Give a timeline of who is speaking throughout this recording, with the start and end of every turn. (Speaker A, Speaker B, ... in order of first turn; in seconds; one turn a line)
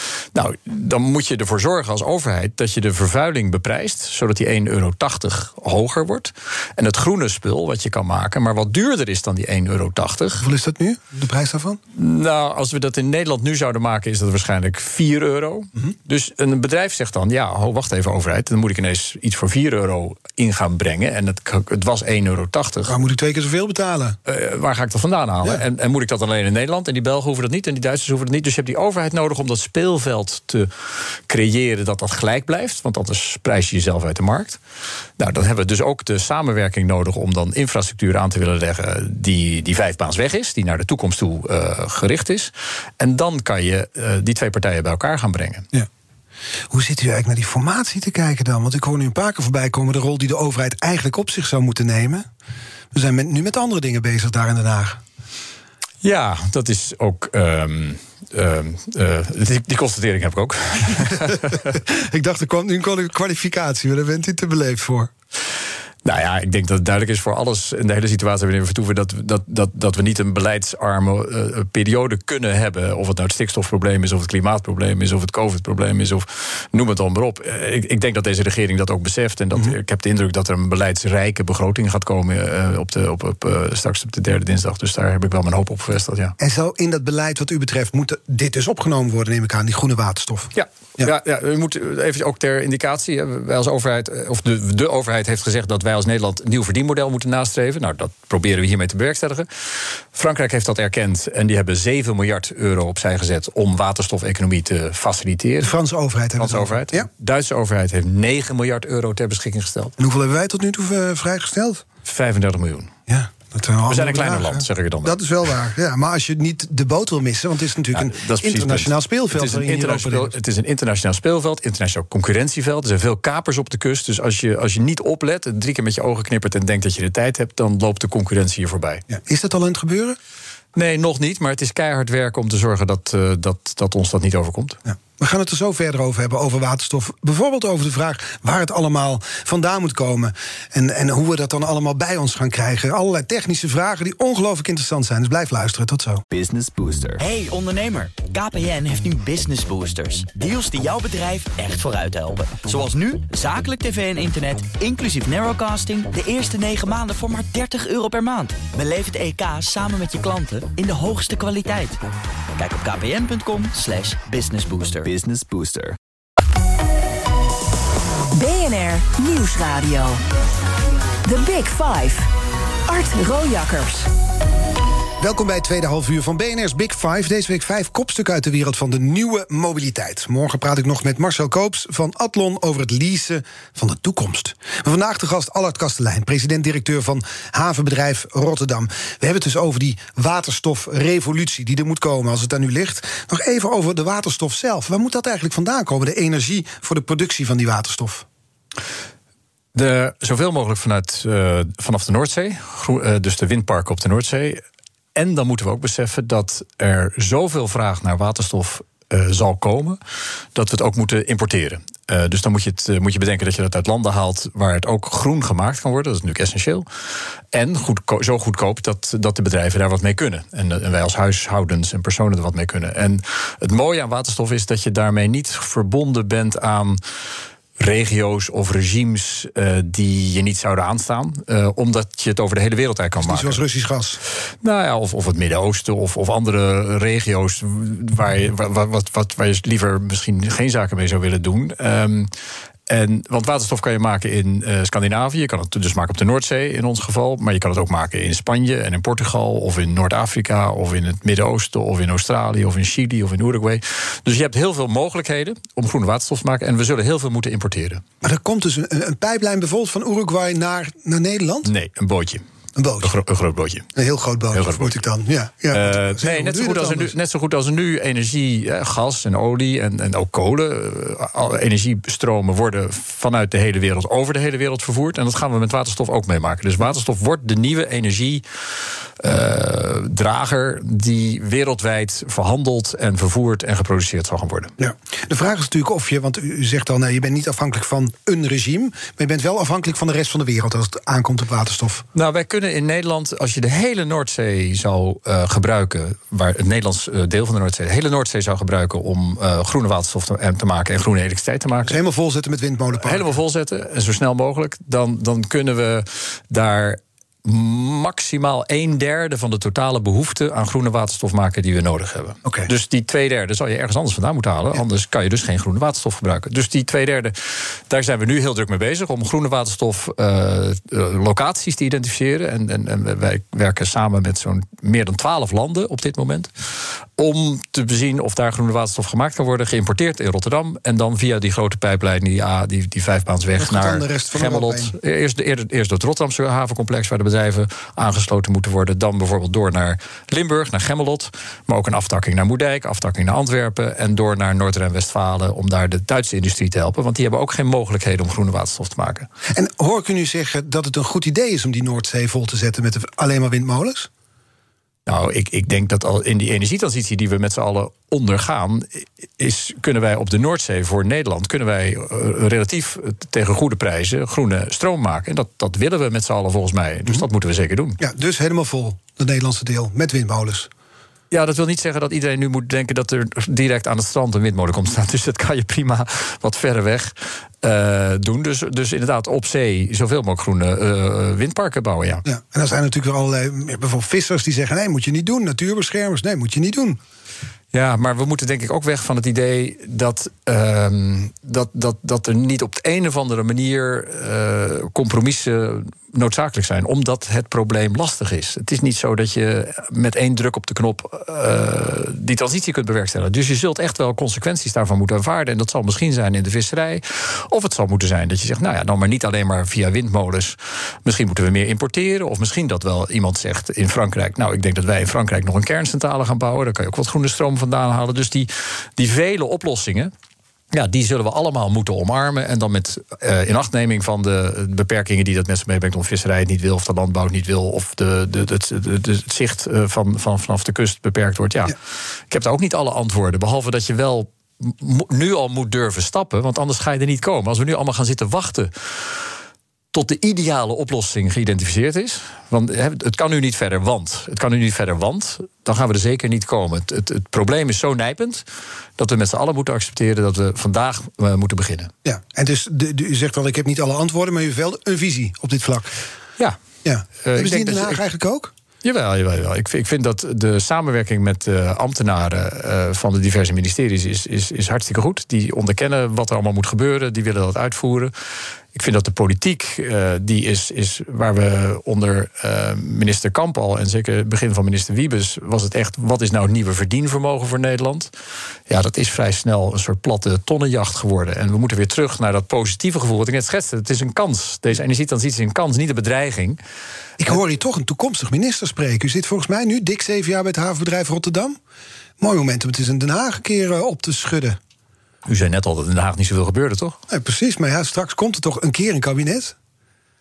Speaker A: 0.3-10.5
Speaker B: 10.4-11.8
Speaker A: 11.9-22.9
Speaker B: 22.9-24.2
Speaker A: 24.3-34.6
Speaker A: 35.2-45.7
Speaker B: 46.7-52.3
Speaker B: 52.9-55.0
Speaker A: 56.0-61.7
Speaker B: 61.3-65.1
Speaker A: 66.0-86.3
Speaker B: 86.4-91.1
Speaker A: 90.5-99.5
Speaker A: 100.1-105.7
Speaker B: 105.6-107.1
Speaker A: 106.4-109.9
Speaker B: 110.0-111.8
Speaker A: 112.0-112.9
Speaker B: 113.1-120.3
Speaker A: 113.9-115.2
Speaker A: 117.9-129.0
Speaker B: 129.1-130.2
Speaker A: 130.8-134.8
Speaker B: 134.9-146.2
Speaker C: 146.3-162.0
Speaker C: 162.6-166.0
Speaker D: 168.3-170.2
Speaker D: 171.2-172.3
Speaker D: 172.9-174.1
Speaker B: 175.2-198.3
Speaker A: 199.8-204.6
Speaker A: 205.2-210.0
Speaker A: 210.6-216.9
Speaker A: 217.5-227.0
Speaker A: 227.8-233.6
Speaker B: 233.2-234.2
Speaker A: 234.6-242.3
Speaker A: 242.9-258.0
Speaker B: 258.2-261.7
Speaker A: 261.6-262.4
Speaker B: 262.8-263.2
Speaker A: 263.0-263.9
Speaker B: 263.9-267.1
Speaker A: 264.5-264.9
Speaker A: 265.7-278.4
Speaker A: 279.2-284.7
Speaker B: 284.8-292.1
Speaker A: 292.1-302.0
Speaker B: 301.8-303.3
Speaker A: 303.0-326.5
Speaker B: 312.4-312.7
Speaker A: 327.2-349.3
Speaker B: 333.6-335.0
Speaker B: 349.5-354.1
Speaker A: 355.1-368.0
Speaker B: 368.0-370.7
Speaker A: 371.3-382.2
Speaker B: 382.3-387.0
Speaker A: 387.7-420.1
Speaker A: 420.7-431.8
Speaker A: 432.3-439.3
Speaker A: 439.9-448.4
Speaker A: 449.0-451.9
Speaker B: 452.0-455.9
Speaker B: 456.8-458.5
Speaker A: 457.2-458.0
Speaker A: 458.8-468.1
Speaker A: 468.7-478.1
Speaker A: 478.7-486.6
Speaker B: 487.2-491.6
Speaker B: 492.2-494.6
Speaker A: 495.3-497.0
Speaker B: 497.1-499.6